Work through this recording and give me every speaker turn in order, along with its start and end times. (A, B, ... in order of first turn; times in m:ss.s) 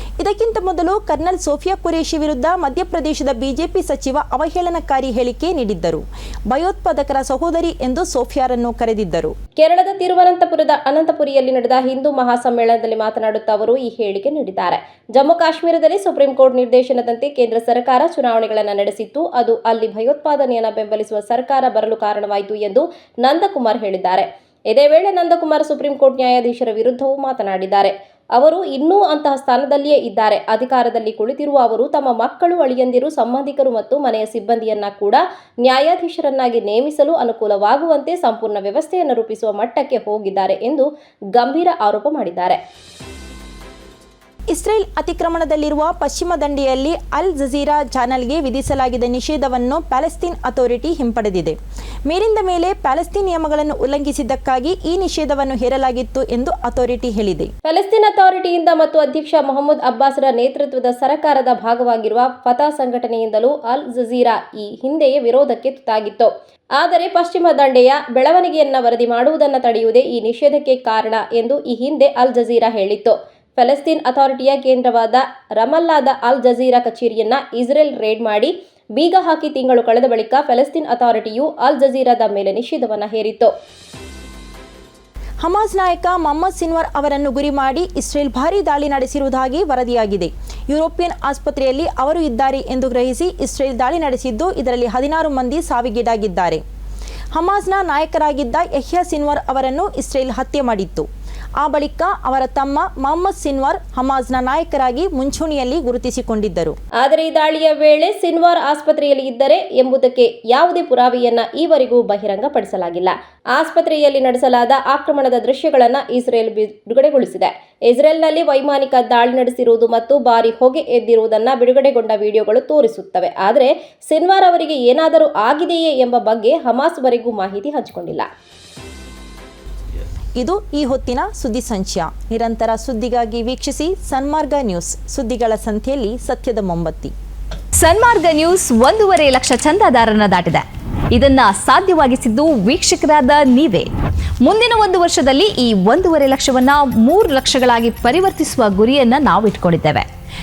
0:00.2-0:09.3 A
0:09.6-0:42.6 B
0:44.5-0:51.6 A
0:52.1-0:57.5 A
0:57.6-1:23.5 B
1:25.4-1:36.6 A
1:37.3-1:41.0 A
1:41.6-1:46.7 A
1:47.0-2:08.3 B
2:10.4-2:17.1 A
2:17.8-2:23.9 C
2:24.4-2:30.0 C